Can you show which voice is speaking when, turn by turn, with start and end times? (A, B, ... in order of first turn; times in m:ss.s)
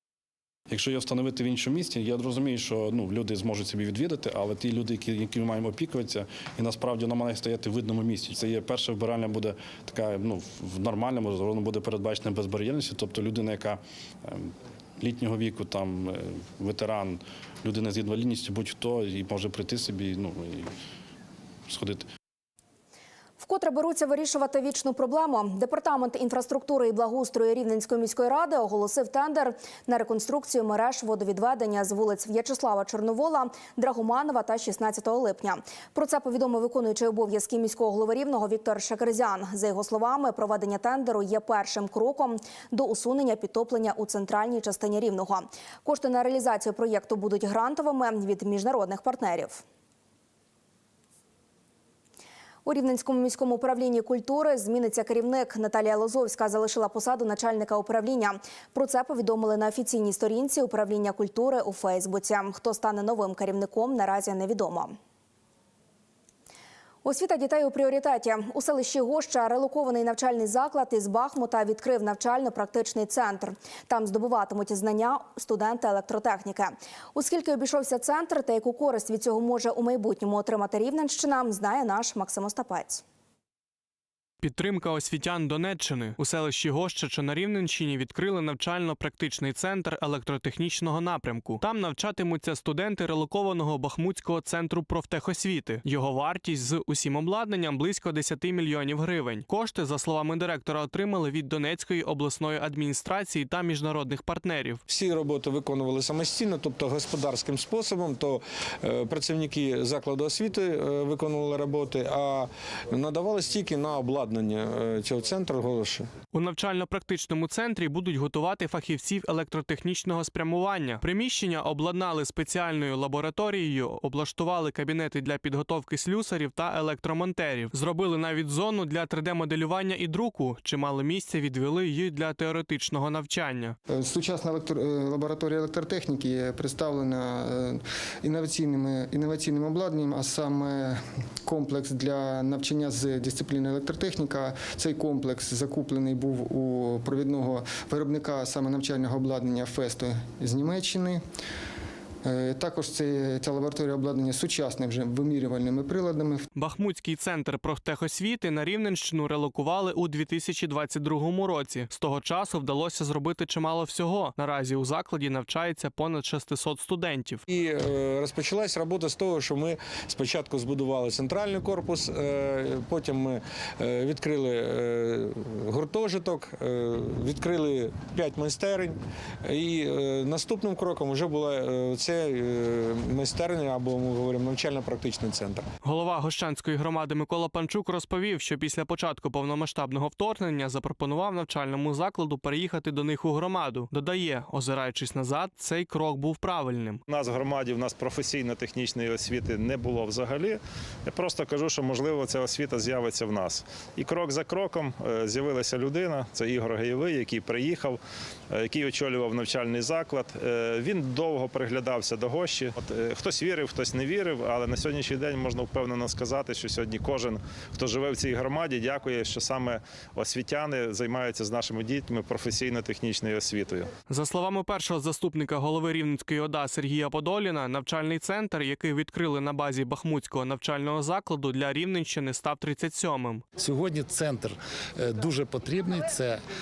0:00.7-0:20.7 A
0:21.7-0:22.1 A
0:23.4-0:49.6 B
0:52.6-1:05.0 B
1:07.0-1:23.0 B
1:24.4-1:44.8 C
1:44.9-1:56.1 D
1:56.3-2:13.8 C
2:14.0-2:31.2 E
2:32.3-2:36.4 E
2:36.6-2:47.4 C
2:47.5-3:05.6 D
3:05.8-3:17.0 C
3:17.1-3:43.9 F
3:44.1-3:53.4 C
3:53.6-3:56.4 G